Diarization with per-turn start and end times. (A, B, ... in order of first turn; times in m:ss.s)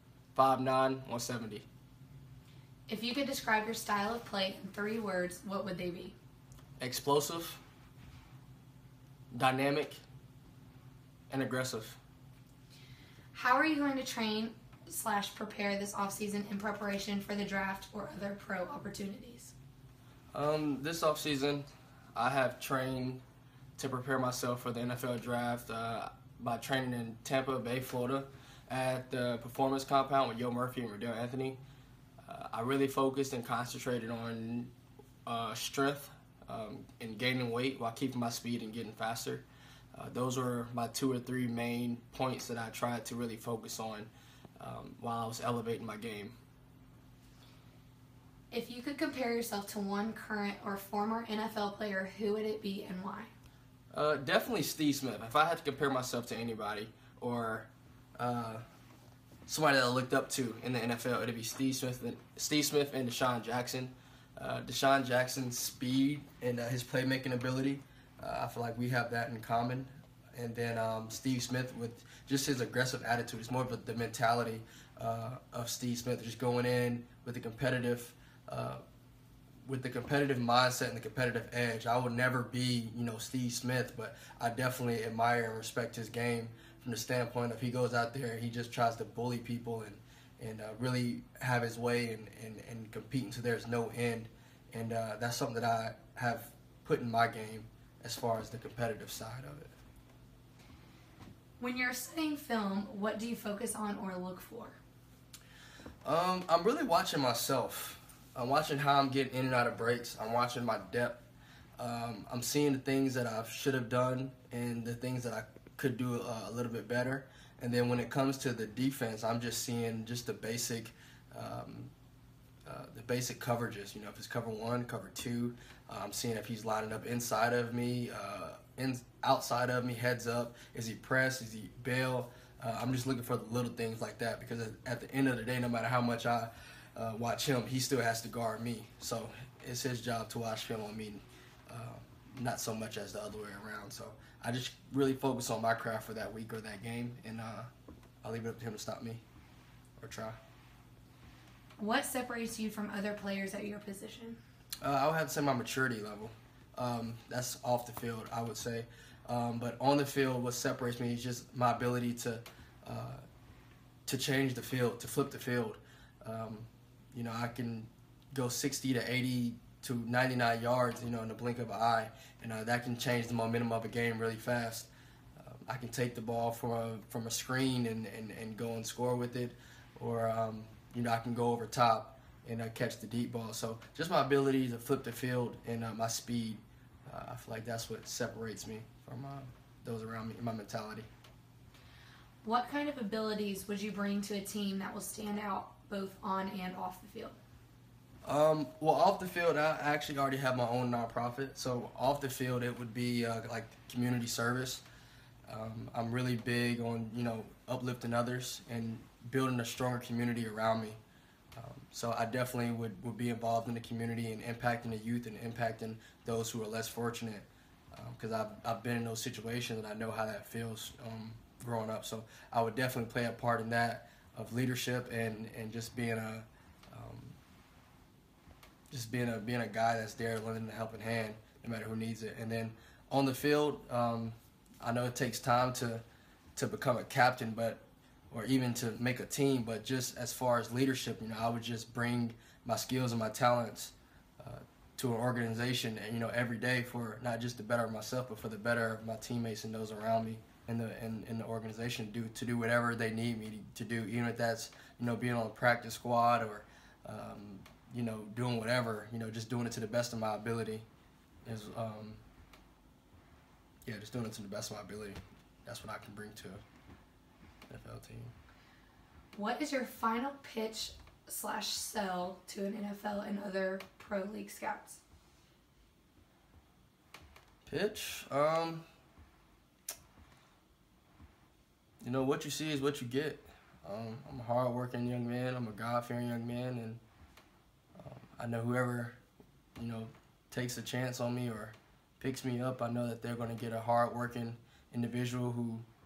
0:00.3-0:01.6 A
0:02.9-0:06.2 B
0:06.8-0:07.6 A
0:09.3-0:10.0 A
0:11.3-0:12.0 A
0:13.3-0:19.5 B
0:20.3-0:23.2 A
0:23.8-0:31.6 A
0:32.2-0:34.7 A
0:35.2-0:46.3 A
0:48.5-0:53.3 B
0:53.9-0:58.6 A
0:59.5-1:18.8 A
1:19.6-1:39.8 A
1:41.6-1:44.8 B
1:46.0-1:51.2 A
1:51.8-2:01.9 A
2:02.6-2:27.7 A
2:28.2-2:29.2 A
2:30.0-2:30.4 A
2:31.8-2:34.4 B
2:34.8-2:43.2 A
2:44.1-3:11.1 A
3:12.4-3:17.4 B
3:18.2-3:24.8 A
3:25.5-3:31.0 A
3:31.5-3:47.4 A
3:48.9-3:56.0 A
3:56.6-4:20.9 A
4:21.4-4:22.2 A
4:23.8-4:26.6 A
4:27.7-4:28.3 A
4:29.3-4:35.0 B
4:37.6-4:38.8 A
4:42.0-4:47.0 A
4:48.0-4:49.2 A
4:49.8-4:55.8 A